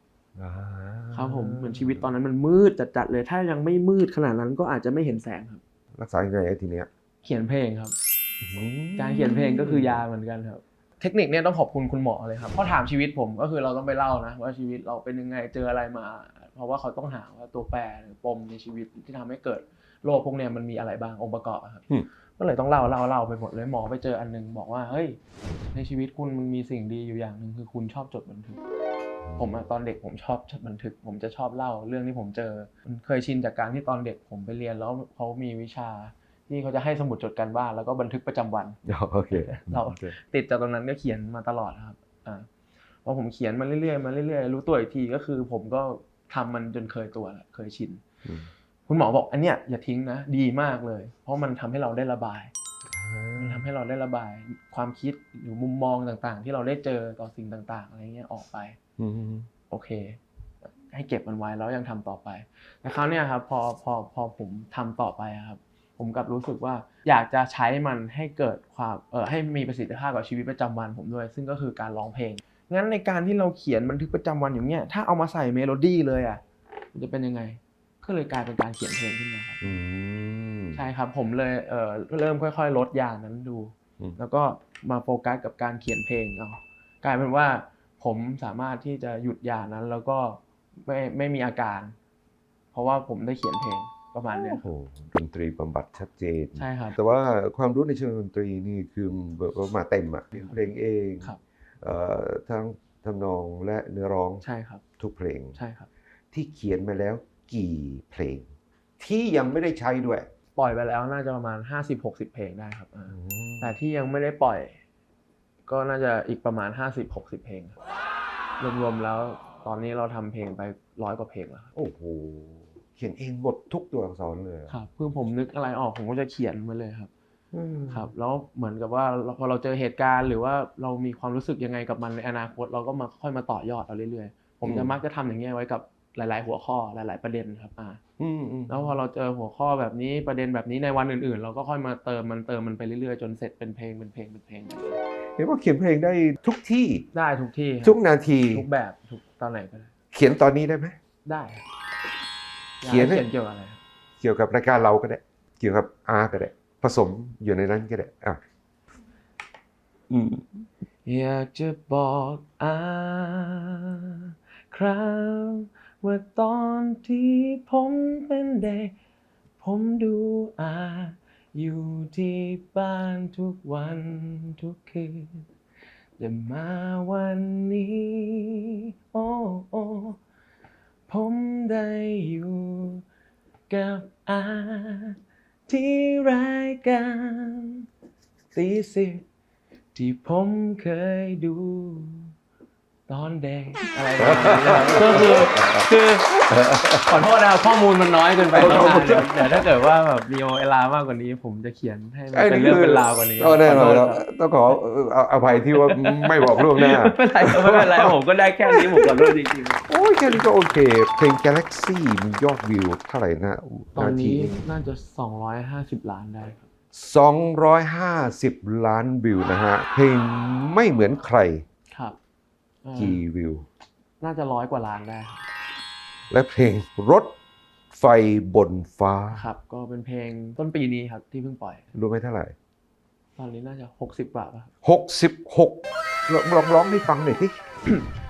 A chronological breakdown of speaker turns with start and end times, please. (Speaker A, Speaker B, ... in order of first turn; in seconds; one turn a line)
Speaker A: 0.4-2.0
Speaker B: 1.1-5.6
Speaker A: 5.9-6.9
Speaker B: 7.2-7.9
Speaker A: 8.4-10.0
Speaker B: 9.0-25.2
Speaker B: 25.7-28.6
Speaker A: 29.2-29.6
Speaker B: 29.4-38.8
Speaker A: 38.9-40.2
Speaker B: 39.3-42.5
Speaker B: 43.0-48.0
Speaker A: 48.2-48.5
Speaker B: 48.9-52.5
Speaker A: 52.9-53.7
Speaker B: 53.4-58.8
Speaker A: 59.0-59.5
Speaker B: 59.7-76.4
Speaker B: 76.9-79.6
Speaker A: 79.6-80.8
Speaker B: 80.8-92.0
Speaker B: 92.7-94.6
Speaker A: 94.3-104.4
Speaker B: 96.6-97.0
Speaker B: 100.4-100.7
Speaker B: 104.4-104.8
Speaker A: 105.0-105.6
Speaker B: 105.5-105.9
Speaker A: 106.3-110.3
Speaker B: 110.6-114.8
Speaker A: 113.1-113.7
Speaker B: 115.7-117.8
Speaker B: 118.6-121.7
Speaker A: 121.8-124.8
Speaker B: 124.7-127.1
Speaker A: 127.5-128.1
Speaker B: 127.9-138.0
Speaker A: 134.6-134.9
Speaker A: 138.2-138.9
Speaker B: 138.7-145.0
Speaker A: 145.4-147.1
Speaker B: 147.1-148.0
Speaker A: 147.8-148.7
Speaker B: 148.5-149.9
Speaker A: 150.1-151.0
Speaker B: 151.2-151.6
Speaker B: 152.8-153.8
Speaker A: 152.8-153.3
Speaker A: 154.2-158.4
Speaker A: 160.1-160.5
Speaker B: 161.1-168.9
Speaker B: 169.6-175.5
Speaker B: 176.2-180.2
Speaker B: 181.1-183.1
Speaker B: 183.7-185.2
Speaker B: 185.7-187.9
Speaker B: 188.5-189.2
Speaker B: 189.9-192.3
Speaker B: 193.1-196.3
Speaker A: 194.2-197.2
Speaker B: 197.1-204.8
Speaker A: 198.5-199.7
Speaker A: 202.3-209.3
Speaker B: 205.9-209.8
Speaker A: 209.9-214.6
Speaker B: 214.0-216.7
Speaker A: 216.9-221.6
Speaker B: 221.9-222.2
Speaker B: 222.8-223.2
Speaker A: 222.9-223.7
Speaker B: 224.2-225.4
Speaker A: 226.3-227.3
Speaker A: 227.9-229.4
Speaker B: 229.3-231.9
Speaker A: 231.9-232.6
Speaker B: 233.4-234.7
Speaker A: 234.8-237.6